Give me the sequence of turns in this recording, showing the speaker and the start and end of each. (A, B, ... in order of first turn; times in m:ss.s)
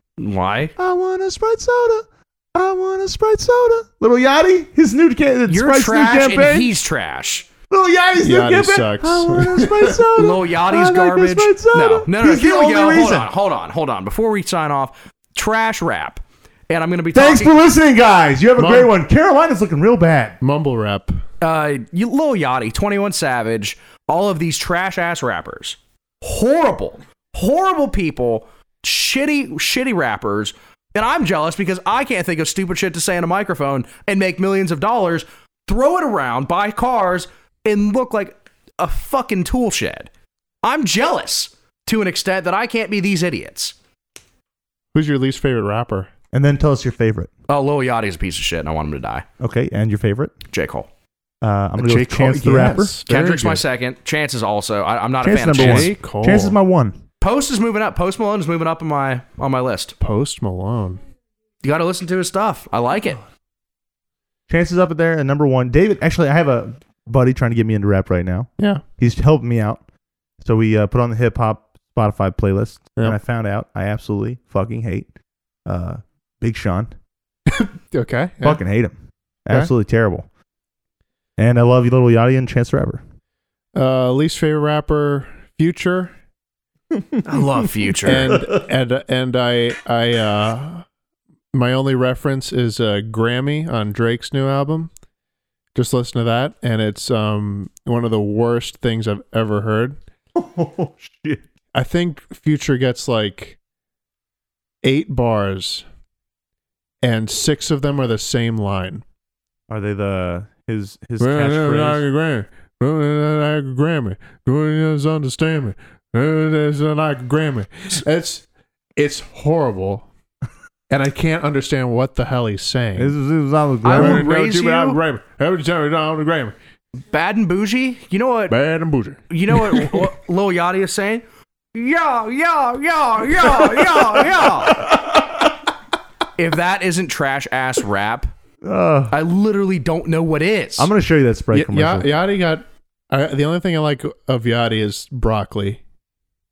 0:00.2-0:00.7 A
0:00.8-0:06.7 B
0:05.5-0:07.5 A
0:07.7-0:13.3 B
0:08.2-0:10.1 C
0:10.1-0:17.5 A
0:17.1-0:20.4 B
0:18.6-0:18.9 C
0:20.4-0:21.2 C
0:21.4-0:40.1 A
0:40.6-0:43.7 A
0:44.9-0:46.1 C
0:46.3-0:47.3 B
0:47.5-0:49.2 A
0:49.4-0:50.3 B
0:50.5-0:50.9 A
0:51.4-0:53.0 B
0:51.8-0:53.6 C
0:53.0-0:55.9 A
0:55.2-0:57.0 B
0:55.6-0:56.6 C
0:57.2-0:59.9 A
1:00.0-1:01.0 C
1:01.6-1:03.2 A
1:04.5-1:09.8 B
1:10.4-1:15.1 B
1:15.6-1:16.9 B
1:17.5-1:18.6 C
1:18.4-1:18.9 B
1:19.4-1:20.3 B
1:21.4-1:23.0 B
1:23.7-1:26.1 C
1:27.2-1:28.4 A
1:28.0-1:30.8 C
1:31.5-1:34.9 C
1:35.7-1:40.0 C
1:40.3-1:41.4 B
1:41.7-1:43.6 C
1:44.8-1:45.8 C
1:47.0-1:49.0 C
1:49.7-1:52.0 B
1:51.2-1:58.4 C
1:59.0-2:00.1 C
2:00.9-2:03.1 C
2:03.0-2:04.3 B
2:03.8-2:05.0 A
2:03.8-2:06.5 C
2:07.1-2:08.6 A
2:08.5-2:10.1 C
2:09.3-2:14.9 A
2:14.8-2:15.1 B
2:16.4-2:18.3 A
2:18.6-2:19.1 B
2:19.1-2:20.9 A
2:20.8-2:22.1 B
2:21.5-2:25.8 C